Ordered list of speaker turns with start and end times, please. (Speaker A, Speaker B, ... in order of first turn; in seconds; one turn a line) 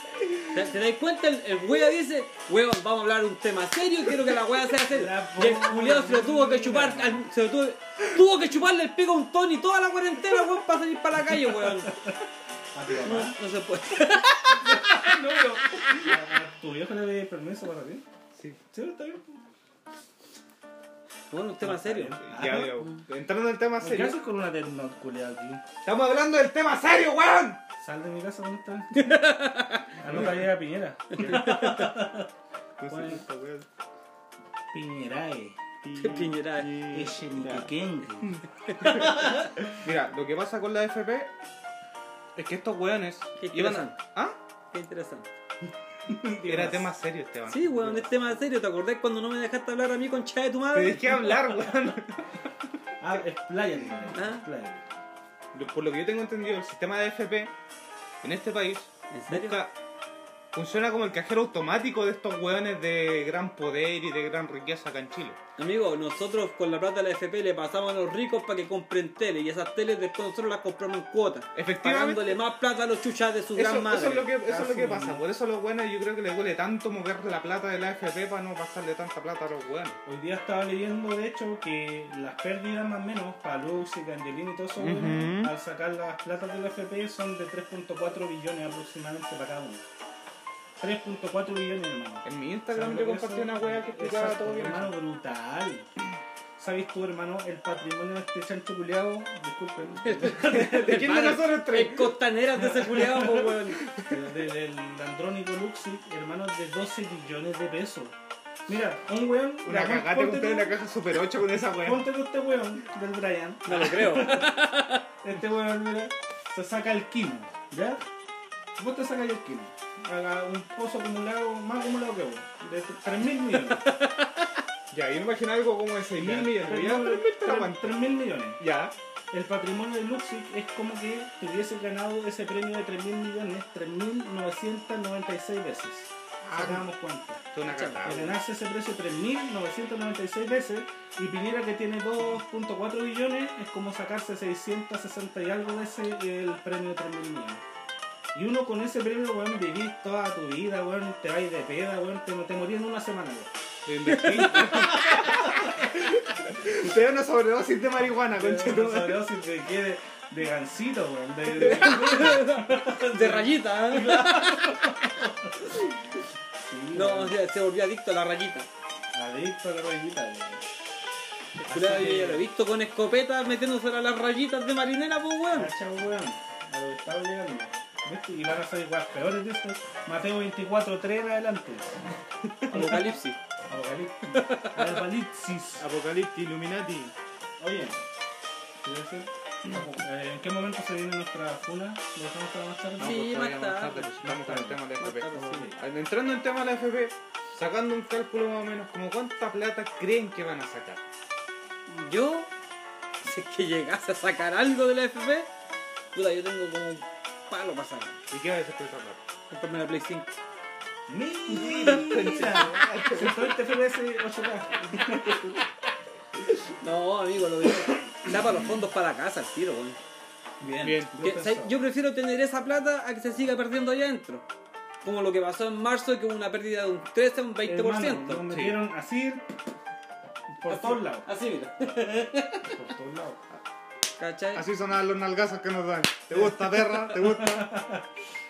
Speaker A: 0.5-11.9
Speaker B: 4.9-7.2
Speaker B: 11.5-12.2
Speaker B: 12.7-13.4
Speaker A: 12.9-15.2
Speaker B: 14.5-18.1
Speaker B: 18.7-19.4
Speaker A: 21.3-22.2
Speaker B: 21.6-22.8
Speaker C: 22.2-24.2
Speaker B: 23.8-25.6
Speaker C: 25.8-27.6
Speaker B: 27.8-29.2
Speaker A: 28.9-30.0
Speaker B: 29.9-32.3
Speaker C: 30.1-30.5
Speaker A: 31.2-32.0
Speaker C: 31.2-31.6
Speaker C: 32.8-33.7
Speaker B: 32.9-33.2
Speaker B: 34.7-35.6
Speaker C: 35.8-41.3
Speaker A: 36.0-36.8
Speaker B: 36.9-39.6
Speaker A: 38.7-39.0
Speaker C: 42.4-44.4
Speaker A: 43.4-44.0
Speaker A: 44.7-45.3
Speaker B: 46.1-46.9
Speaker C: 46.4-48.1
Speaker A: 47.5-51.5
Speaker C: 50.7-52.2
Speaker B: 53.0-54.9
Speaker A: 54.1-54.5
Speaker C: 55.5-57.5
Speaker C: 58.2-59.8
Speaker A: 59.1-59.6
Speaker C: 60.5-65.4
Speaker A: 65.6-74.3
Speaker C: 71.6-72.4
Speaker C: 73.6-80.0
Speaker B: 74.5-75.2
Speaker B: 80.1-89.8
Speaker C: 84.8-85.5
Speaker B: 90.8-95.9
Speaker C: 92.2-95.0
Speaker B: 96.6-101.1
Speaker A: 100.0-103.9
Speaker C: 100.6-102.1
Speaker B: 102.8-103.4
Speaker C: 103.7-104.2
Speaker B: 104.0-108.2
Speaker B: 108.7-110.8
Speaker C: 109.6-112.1
Speaker B: 111.8-114.5
Speaker A: 113.7-115.0
Speaker B: 115.2-118.0
Speaker B: 118.8-123.8
Speaker A: 123.4-124.4
Speaker C: 124.9-128.9
Speaker B: 126.2-128.6
Speaker B: 129.3-137.4
Speaker C: 136.4-136.8
Speaker C: 137.5-138.4
Speaker A: 137.6-138.0
Speaker B: 138.0-147.6
Speaker B: 148.3-153.5
Speaker C: 153.8-159.3
Speaker B: 154.1-155.7
Speaker B: 158.3-165.7
Speaker A: 161.6-165.0
Speaker B: 166.6-167.4
Speaker A: 166.9-168.7
Speaker B: 169.1-170.6
Speaker B: 171.6-172.5
Speaker A: 171.7-175.7
Speaker B: 175.5-182.0
Speaker A: 182.7-183.4
Speaker B: 182.7-183.1
Speaker B: 183.7-185.9
Speaker A: 184.3-185.0
Speaker C: 185.8-187.1
Speaker B: 187.6-188.0
Speaker B: 188.8-193.2
Speaker C: 193.0-201.0
Speaker A: 193.0-194.1
Speaker B: 194.2-195.8
Speaker A: 195.0-195.7
Speaker A: 201.9-202.5
Speaker A: 203.2-205.5
Speaker A: 206.1-208.2
Speaker C: 208.3-209.2
Speaker A: 209.5-210.4
Speaker B: 211.1-215.6
Speaker C: 211.5-213.6
Speaker A: 211.6-212.3
Speaker C: 215.0-215.6
Speaker A: 216.7-220.0
Speaker B: 220.6-221.7
Speaker C: 220.8-221.1
Speaker A: 221.2-224.4
Speaker A: 225.0-228.4
Speaker B: 227.6-229.4
Speaker C: 228.5-228.8
Speaker B: 230.6-231.3
Speaker A: 230.7-232.7
Speaker B: 232.6-233.4
Speaker A: 234.2-234.7
Speaker C: 234.5-237.8
Speaker B: 237.1-238.1